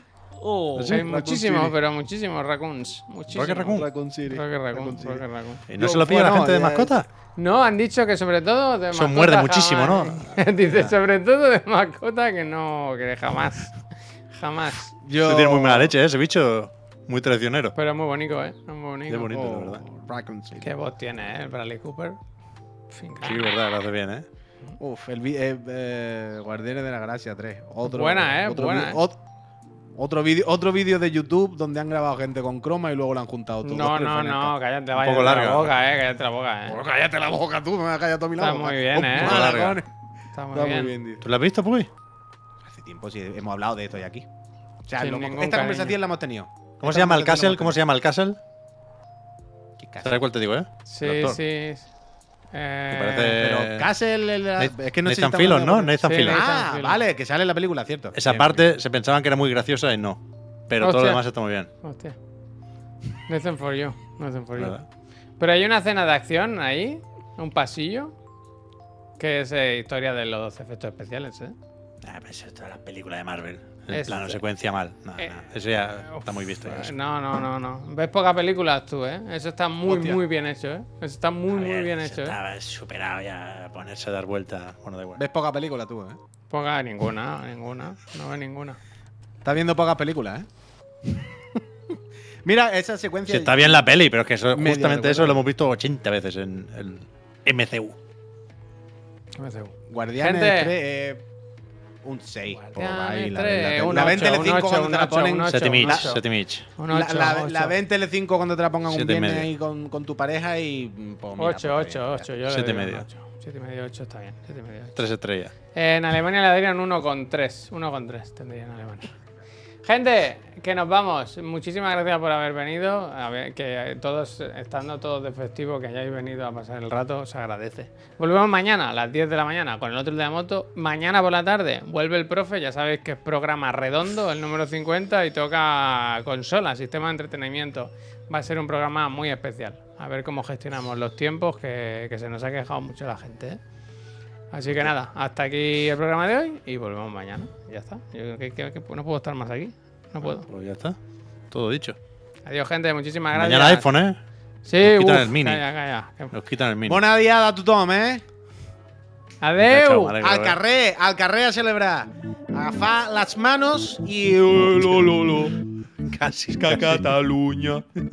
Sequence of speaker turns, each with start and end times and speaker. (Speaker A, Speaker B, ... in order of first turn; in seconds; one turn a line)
Speaker A: 0.4-1.7
Speaker B: 0.8-1.1
Speaker C: 0.9-5.6
Speaker B: 3.3-3.9
Speaker A: 3.6-5.2
Speaker B: 5.7-7.0
Speaker A: 5.7-7.0
Speaker C: 7.4-13.8
Speaker B: 8.9-10.4
Speaker C: 14.3-14.9
Speaker A: 15.0-15.9
Speaker B: 15.1-17.7
Speaker C: 17.7-19.4
Speaker B: 19.1-19.8
Speaker A: 19.3-20.7
Speaker C: 20.6-22.2
Speaker C: 22.9-23.5
Speaker B: 23.2-24.2
Speaker A: 24.8-29.2
Speaker C: 27.8-29.0
Speaker A: 29.9-34.5
Speaker C: 33.6-36.8
Speaker B: 35.0-35.7
Speaker A: 36.7-39.9
Speaker C: 38.4-39.5
Speaker B: 38.9-39.8
Speaker C: 40.3-40.9
Speaker A: 40.5-41.2
Speaker B: 41.2-41.9
Speaker A: 42.6-44.2
Speaker A: 44.9-47.8
Speaker C: 45.0-46.0
Speaker B: 46.8-48.4
Speaker A: 49.8-50.1
Speaker B: 50.0-51.4
Speaker C: 50.9-51.9
Speaker C: 52.5-53.6
Speaker B: 52.9-53.9
Speaker A: 53.4-58.7
Speaker B: 54.6-56.4
Speaker C: 56.0-57.0
Speaker B: 58.1-61.7
Speaker C: 60.8-61.2
Speaker C: 61.8-62.1
Speaker C: 63.3-64.8
Speaker B: 64.5-64.8
Speaker C: 65.4-68.1
Speaker C: 69.2-71.5
Speaker B: 72.0-76.9
Speaker C: 73.9-74.4
Speaker C: 75.2-75.4
Speaker C: 76.1-82.3
Speaker A: 79.8-80.2
Speaker B: 81.5-85.2
Speaker A: 85.2-86.2
Speaker C: 86.5-88.8
Speaker A: 89.4-90.5
Speaker A: 91.0-91.6
Speaker A: 92.4-93.9
Speaker B: 93.3-98.0
Speaker A: 94.5-95.4
Speaker C: 99.4-100.7
Speaker A: 99.9-101.2
Speaker A: 102.0-106.2
Speaker C: 102.5-106.2
Speaker B: 105.5-106.7
Speaker C: 106.8-107.7
Speaker A: 106.9-112.3
Speaker B: 108.9-109.5
Speaker C: 111.4-115.0
Speaker B: 112.5-113.0
Speaker B: 115.0-115.5
Speaker C: 115.7-119.1
Speaker C: 119.8-143.6
Speaker C: 144.5-150.5
Speaker B: 150.3-151.0
Speaker B: 151.5-152.0
Speaker C: 152.4-153.9
Speaker B: 153.3-154.2
Speaker C: 154.7-156.3
Speaker B: 154.8-155.6
Speaker B: 156.3-157.0
Speaker A: 156.9-158.2
Speaker C: 159.4-160.1
Speaker B: 159.6-160.6
Speaker A: 160.2-165.6
Speaker B: 166.1-167.1
Speaker A: 166.5-167.8